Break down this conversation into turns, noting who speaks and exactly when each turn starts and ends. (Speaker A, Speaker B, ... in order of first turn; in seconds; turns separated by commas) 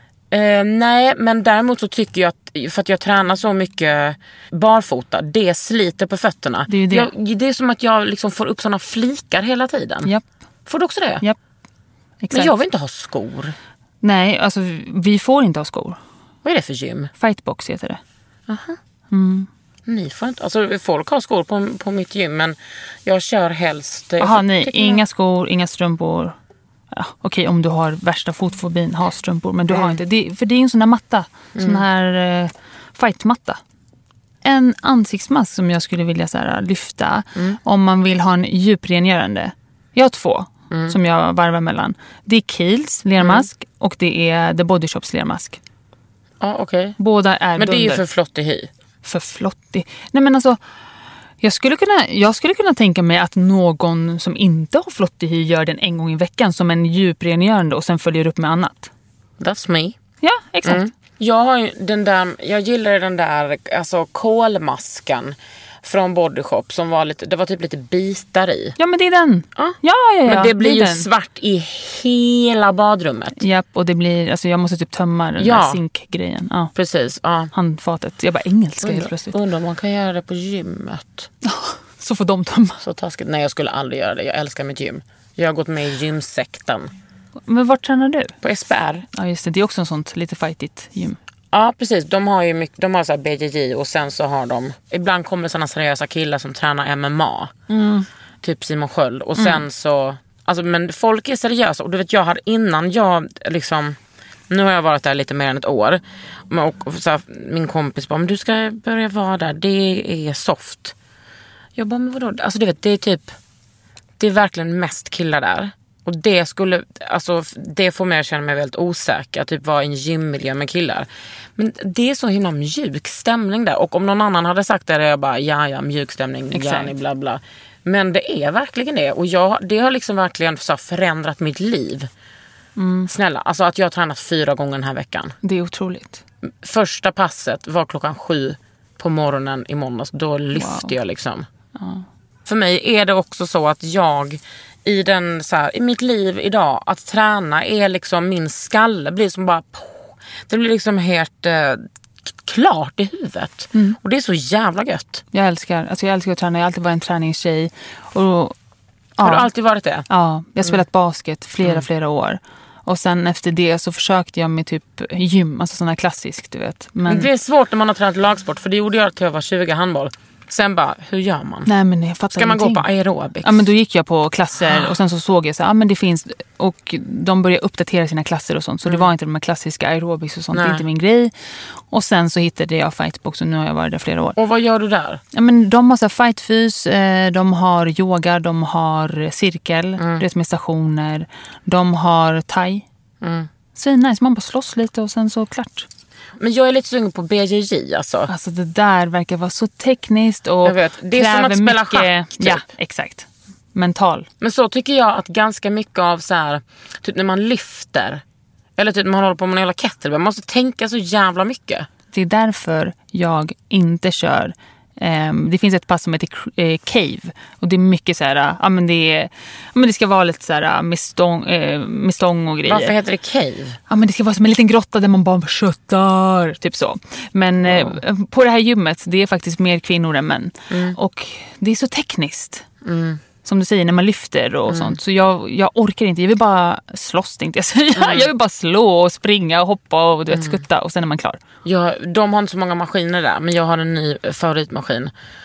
Speaker A: 0.3-10.1, Speaker B: 6.7-7.1, Speaker A: 10.7-11.2, Speaker B: 12.2-12.5, Speaker A: 12.3-13.6, Speaker B: 14.0-16.0, Speaker A: 16.4-17.1, Speaker B: 17.2-18.0, Speaker A: 18.5-18.8, Speaker B: 19.1-19.5, Speaker A: 19.9-25.0, Speaker B: 24.2-26.4, Speaker B: 26.9-33.6, Speaker A: 29.7-30.0, Speaker A: 31.6-31.8, Speaker B: 34.4-45.6, Speaker A: 40.7-41.0, Speaker A: 43.2-43.5, Speaker A: 46.4-47.0, Speaker B: 47.0-48.0, Speaker A: 47.5-48.7, Speaker B: 49.0-50.6, Speaker B: 51.4-58.9, Speaker A: 59.4-60.0, Speaker B: 60.2-60.9, Speaker A: 60.6-68.8, Speaker B: 68.8-71.1, Speaker A: 69.5-73.4, Speaker B: 73.4-76.7, Speaker A: 75.4-75.8, Speaker A: 76.7-77.5, Speaker B: 77.5-79.3, Speaker A: 78.8-81.3, Speaker B: 81.4-82.8, Speaker A: 82.8-86.9, Speaker B: 87.5-88.3, Speaker A: 88.4-89.1, Speaker B: 89.1-91.2, Speaker A: 91.5-97.5, Speaker B: 97.7-98.1, Speaker A: 98.4-104.0, Speaker A: 104.5-110.9, Speaker A: 111.8-113.3, Speaker A: 114.2-132.1, Speaker B: 126.5-126.9, Speaker B: 132.8-133.1, Speaker A: 133.1-135.3, Speaker B: 135.4-136.2, Speaker A: 136.5-141.5, Speaker B: 140.5-141.0, Speaker B: 141.8-142.0, Speaker A: 142.4-155.2, Speaker B: 153.7-154.0, Speaker B: 155.3-158.6, Speaker B: 159.2-159.5, Speaker A: 159.2-160.1, Speaker B: 160.1-167.3, Speaker A: 167.1-171.7, Speaker B: 171.7-172.8, Speaker A: 172.3-173.6, Speaker B: 173.4-184.4, Speaker A: 174.6-174.9, Speaker A: 180.5-180.8, Speaker A: 184.3-185.2, Speaker B: 185.3-192.8, Speaker A: 190.0-190.2, Speaker A: 193.2-193.5, Speaker B: 193.7-195.9, Speaker A: 196.4-198.3, Speaker B: 198.3-204.3, Speaker A: 200.6-202.6, Speaker A: 204.4-208.2, Speaker A: 208.8-211.9, Speaker B: 212.1-222.9, Speaker A: 222.7-223.8, Speaker B: 223.9-232.7, Speaker A: 227.6-228.0, Speaker A: 230.7-231.0, Speaker A: 232.8-233.2, Speaker B: 233.4-241.4, Speaker A: 234.7-235.0, Speaker A: 237.9-238.3, Speaker A: 240.3-240.6, Speaker A: 241.6-245.1